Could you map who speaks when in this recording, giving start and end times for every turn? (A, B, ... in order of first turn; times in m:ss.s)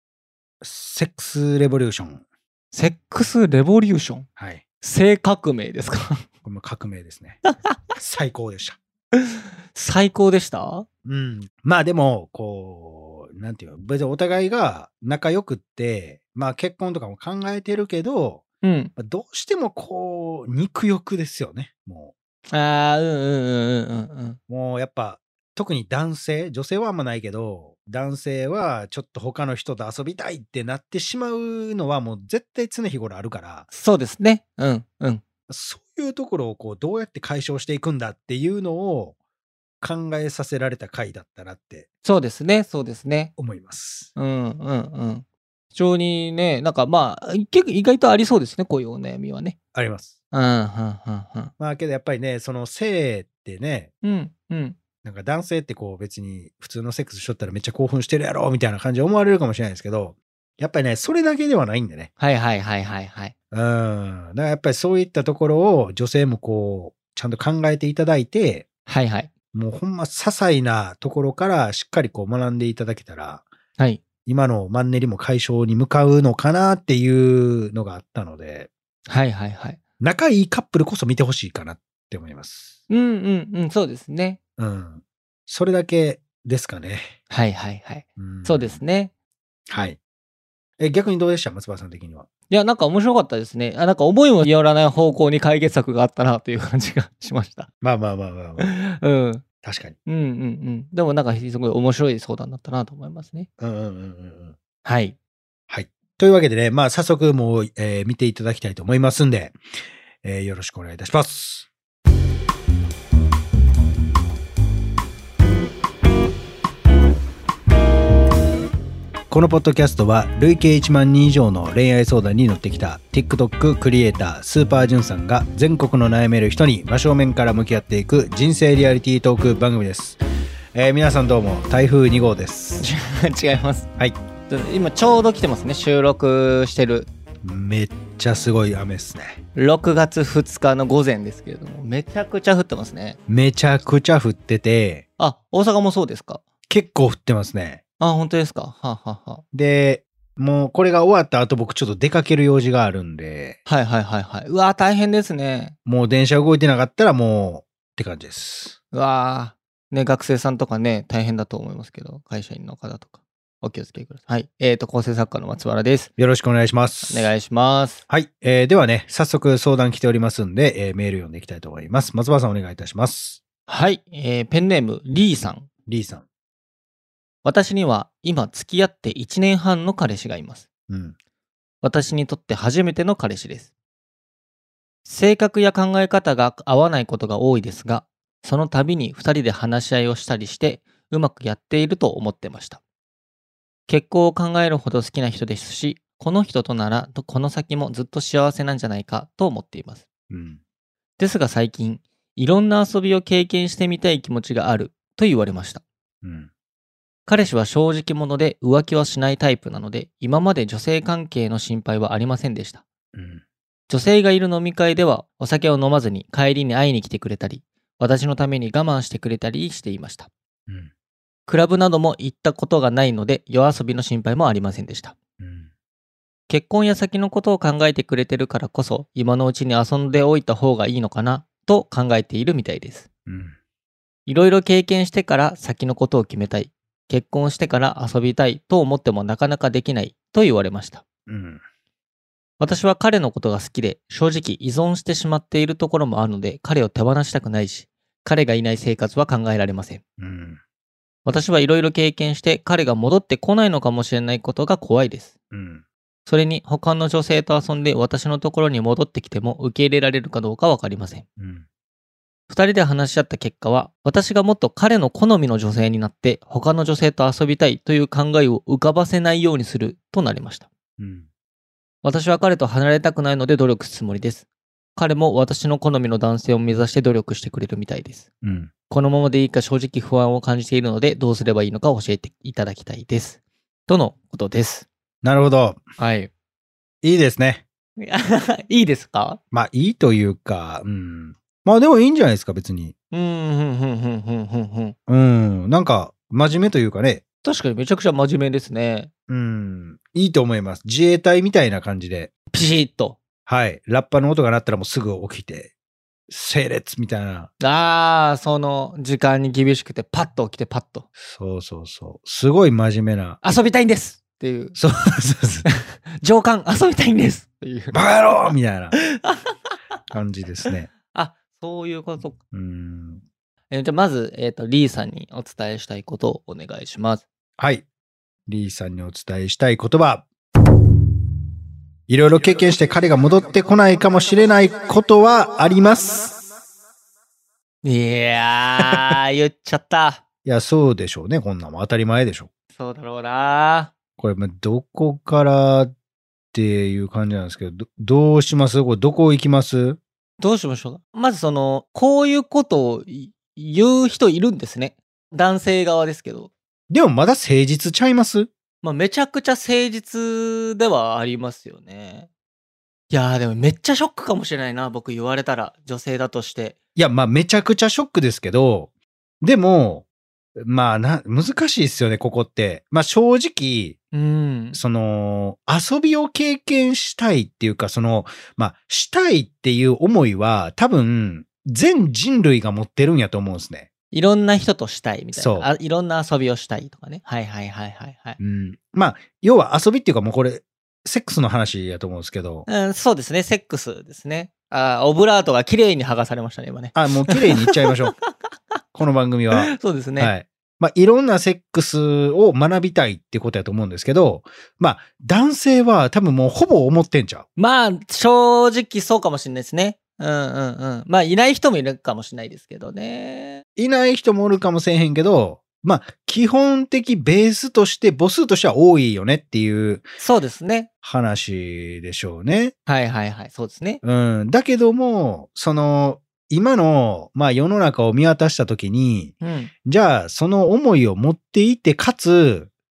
0:00.6-0:02.2 A
0:02.7-0:04.3 B
0:04.4-0:04.6 A
0:04.8-0:06.2 B
0:06.4-0:07.4 A
0:08.0-0:08.8 A
0:09.2-0:10.9 B
0:11.0-0:18.4 A
0:18.6-0:18.9 B
0:19.0-0:22.1 A
0:22.5-0:24.4 B
0:24.5-0:33.7 A
0:33.7-0:35.2 B
0:35.5-0:39.2 A
0:39.8-0:41.9 A
0:42.0-0:43.3 B
0:43.4-0:44.1 A
0:44.2-0:49.6 B
0:49.7-0:50.2 A
0:50.3-0:51.5 B
0:51.6-0:53.9 A
0:54.0-0:54.8 B
0:55.0-1:02.1 A
1:02.2-1:03.3 B
1:03.5-1:08.7 A
1:08.9-1:09.3 B
1:09.5-1:13.5 A
1:14.3-1:18.7 A
1:19.1-1:19.8 B
1:20.0-1:22.8 A
1:22.9-1:24.4 B
1:24.6-1:27.2 A
1:27.3-1:29.1 B
1:28.2-1:28.8 A
1:29.7-1:30.0 A
1:30.8-1:32.3 A
1:32.5-1:37.7 B
1:37.8-1:38.7 A
1:38.6-1:39.4 B
1:39.6-1:40.0 A
1:40.1-1:43.5 B
1:43.6-1:44.6 A
1:44.8-1:45.2 B
1:45.7-1:49.6 A
1:50.2-1:51.7 A
1:59.3-2:10.2 A
2:10.7-2:12.9 A
2:12.8-2:13.9 B
2:14.5-2:17.1 B
2:17.4-2:19.4 A
2:19.6-2:23.2 B
2:23.3-2:25.0 A
2:25.2-2:26.4 B
2:26.7-2:27.8 A
2:28.0-2:29.4 B
2:29.5-2:33.6 A
2:33.7-2:35.8 B
2:35.9-2:38.8 A
2:38.9-2:46.1 B
2:46.2-2:47.3 A
2:47.1-2:48.0 B
2:48.1-2:53.4 A
2:53.7-2:55.7 B
2:55.9-2:56.2 A
2:57.4-3:00.7 B
3:00.9-3:01.2 A
3:01.8-3:03.7 B
3:05.1-3:12.8 B
3:13.9-3:20.0 B
3:20.3-3:20.6 A
3:21.2-3:25.8 B
3:26.2-3:26.5 A
3:27.3-3:32.8 B
3:33.1-3:33.4 A
3:33.9-3:40.3 B
3:41.5-3:45.2 B
3:45.4-3:45.7 A
3:46.5-3:53.1 B
3:53.3-3:53.6 A
3:54.3-4:01.0 B
4:01.3-4:01.6 A
4:02.6-4:10.0 B
4:10.2-4:10.6 A
4:11.2-4:15.3 B
4:15.5-4:15.8 A
4:16.3-4:21.2 B
4:21.4-4:21.7 A
4:22.5-4:30.7 B
4:31.0-4:31.3 A
4:32.0-4:34.4 B
4:35.0-4:38.3 B
4:38.4-4:38.7 A
4:38.9-4:44.9 B
4:45.2-4:45.8 A
4:46.0-4:46.3 B
4:47.0-4:47.6 A
4:48.0-4:49.4 B
4:49.5-4:52.9 A
4:53.1-4:55.0 B
4:55.1-4:57.2 A
4:57.4-4:59.1 B
4:59.3-5:02.3 A
5:02.5-5:03.2 B
5:03.5-5:05.7 A
5:06.3-5:07.5 A
5:07.6-5:11.0 B
5:11.2-5:13.4 A
5:13.4-5:14.8 B
5:14.8-5:15.7 A
5:15.7-5:19.8 B
5:17.9-5:19.0 A
5:20.1-5:20.9 A
5:20.6-5:22.4 B
5:22.5-5:23.2 A
5:23.7-5:27.2 B
5:27.6-5:27.8 A
5:28.5-5:30.3 A
5:32.1-5:36.4 A
5:37.8-5:40.2 B
5:40.4-5:42.5 A
5:42.7-5:43.9 B
5:44.2-5:45.9 A
5:46.5-5:50.0 A
5:50.4-5:56.5 B
5:56.9-5:58.5 A
5:58.8-6:02.3 B
6:03.1-6:06.8 B
6:07.0-6:08.9 A
6:09.4-6:14.0 A
6:14.1-6:14.8 B
6:14.7-6:23.9 A
6:24.1-6:28.4 B
6:25.4-6:25.7 A
6:28.4-6:32.7 A
6:32.7-6:38.3 B
6:36.9-6:38.1 A
6:38.9-6:47.5 A
6:39.5-6:40.3 B
6:47.6-6:53.6 B
6:53.8-7:00.1 A
7:00.2-7:00.9 B
7:01.0-7:02.7 A
7:02.9-7:04.0 B
7:04.0-7:12.7 A
7:09.4-7:09.7 B